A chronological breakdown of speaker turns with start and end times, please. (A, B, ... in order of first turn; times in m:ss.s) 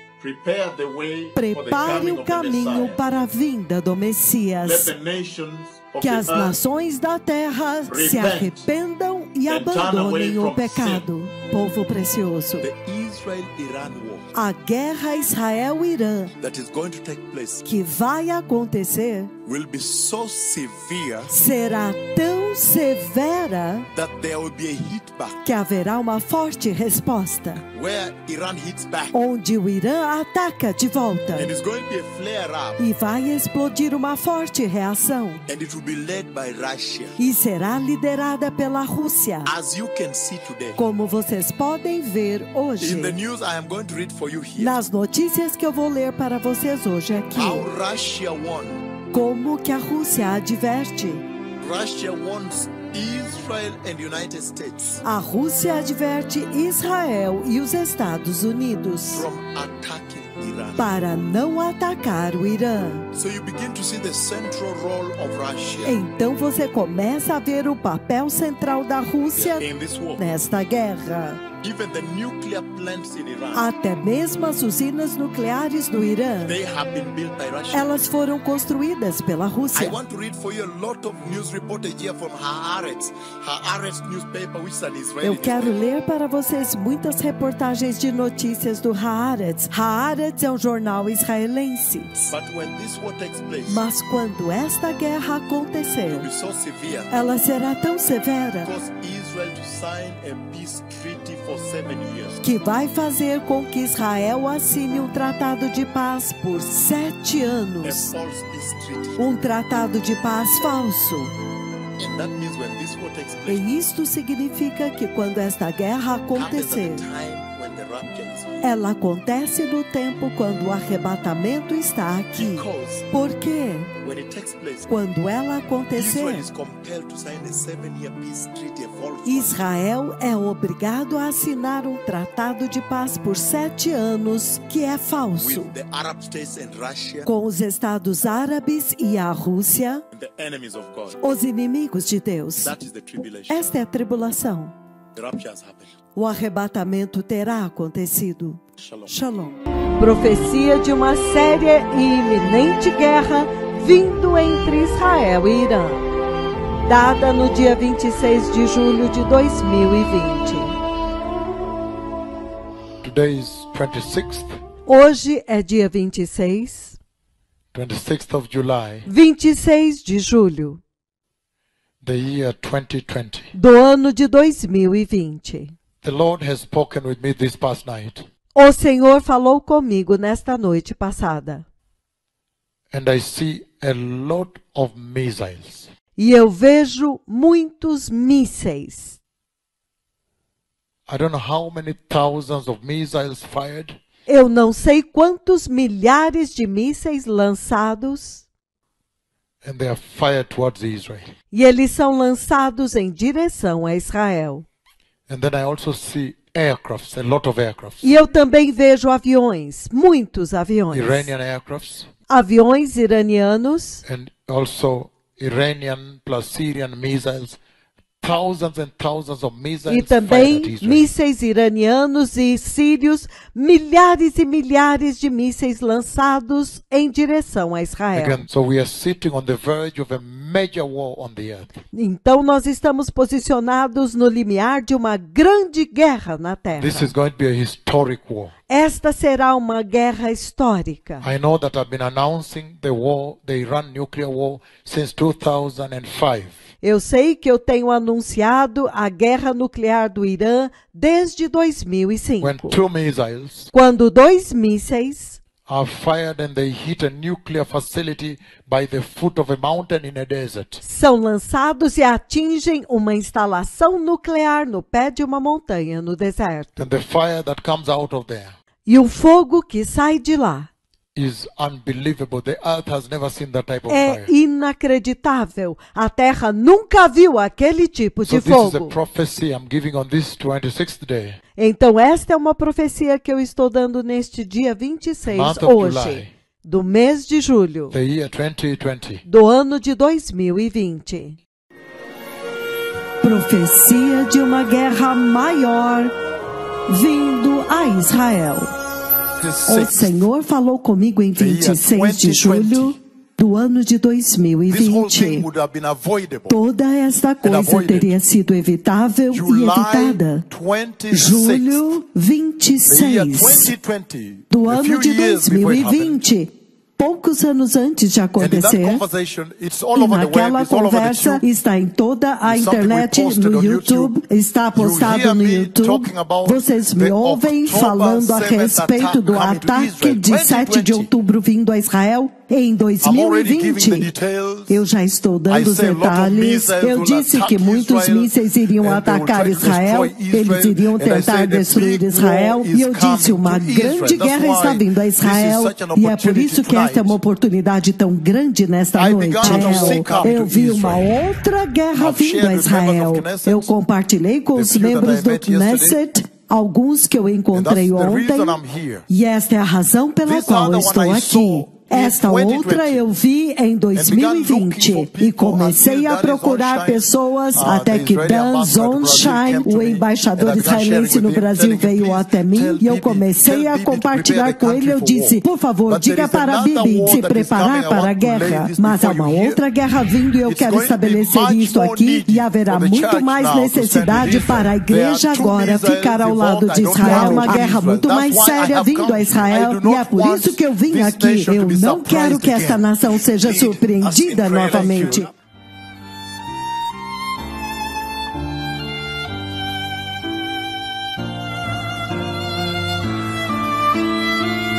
0:00.2-0:03.0 A
0:01.4-0:04.9 B
0:04.6-0:06.6 A
0:06.0-0:12.7 B
0:07.9-0:08.7 A
0:09.5-0:11.1 A
0:12.6-0:14.3 A
0:14.3-0:16.3 B
0:16.4-0:17.6 A
0:17.6-0:19.3 B
0:19.4-0:21.3 A
0:21.3-0:23.9 B
0:23.9-0:25.4 A
0:25.4-0:27.7 B
0:27.7-0:29.1 A
0:29.1-0:31.5 B
0:31.4-0:32.8 A
0:32.8-0:35.4 B
0:35.5-0:37.2 A
0:37.2-0:39.5 B
0:39.5-0:40.8 A
0:40.8-0:43.2 B
0:42.8-0:44.7 A
0:44.6-0:47.7 B
0:47.4-0:48.8 A
0:49.1-0:51.2 B
0:51.6-0:55.0 A
0:55.0-0:59.3 B
0:59.1-1:00.9 A
1:00.8-1:03.1 B
1:03.1-1:06.0 A
1:05.8-1:11.4 B
1:09.4-1:10.2 A
1:11.6-1:13.7 A
1:13.5-1:16.6 B
1:16.5-1:18.1 A
1:17.7-1:20.0 B
1:19.7-1:25.8 A
1:25.2-1:32.3 B
1:32.2-1:33.8 A
1:33.6-1:36.3 B
1:36.1-1:37.1 A
1:37.1-1:38.7 B
1:38.6-1:42.4 A
1:42.4-1:48.1 B
1:47.8-1:49.2 A
1:49.2-1:51.3 B
1:52.0-1:53.7 A
1:53.5-1:57.1 B
1:56.4-1:58.6 A
1:58.6-2:03.9 B
2:02.3-2:03.1 A
2:04.0-2:04.9 A
2:04.9-2:06.5 B
2:06.0-2:09.6 A
2:09.2-2:15.7 B
2:15.4-2:17.3 A
2:17.3-2:20.0 B
2:20.1-2:21.2 A
2:21.2-2:22.8 B
2:22.6-2:23.7 A
2:23.5-2:24.7 B
2:25.2-2:25.9 A
2:26.2-2:36.0 B
2:28.8-2:29.1 A
2:36.8-2:40.8 B
2:43.0-2:44.6 C
2:44.9-2:47.0 B
2:47.7-2:49.1 C
2:49.1-2:50.8 B
2:52.0-2:53.5 C
2:53.5-2:55.8 B
2:56.0-2:58.3 C
2:58.6-3:01.7 B
3:02.9-3:05.9 C
3:06.2-3:09.2 B
3:11.1-3:14.0 C
3:14.3-3:18.5 B
3:19.6-3:21.3 C
3:21.5-3:24.6 B
3:25.3-3:28.1 C
3:28.0-3:31.3 B
3:30.9-3:32.1 C
3:32.3-3:34.0 B
3:34.0-3:37.6 C
3:38.2-3:41.1 C
3:39.9-3:48.5 B
3:48.1-3:51.8 C
3:51.9-3:57.1 B
3:56.8-3:58.5 C
3:58.7-4:01.3 B
4:01.2-4:06.6 C
4:06.8-4:12.8 B
4:12.4-4:13.7 C
4:13.7-4:15.4 B
4:15.7-4:20.8 C
4:20.8-4:26.8 B
4:26.8-4:28.5 C
4:28.9-4:30.7 B
4:31.2-4:34.3 C
4:33.9-4:39.0 B
4:38.2-4:41.4 C
4:41.6-4:48.0 B
4:45.3-4:46.3 C
4:47.9-4:49.2 C
4:49.3-4:51.4 B
4:53.2-4:56.1 B
4:56.9-4:58.7 B
4:59.4-5:00.3 C
4:59.7-5:05.5 B
5:01.4-5:03.0 C
5:04.7-5:06.6 C
5:06.5-5:10.4 B
5:07.4-5:08.1 C
5:09.3-5:11.9 C
5:11.1-5:13.7 B
5:12.9-5:16.2 C
5:14.5-5:19.0 B
5:18.4-5:21.4 C
5:19.9-5:34.1 B
5:22.4-5:24.2 C
5:24.8-5:31.1 C
5:33.0-5:34.8 C
5:34.7-6:35.3 B
5:35.5-5:47.2 C
5:49.0-5:51.1 C
5:49.4-5:50.2 A
5:52.0-5:53.7 C
5:54.6-5:56.0 C
5:57.5-5:59.1 C
6:00.2-6:03.0 C
6:03.9-6:19.6 C
6:20.4-6:35.3 C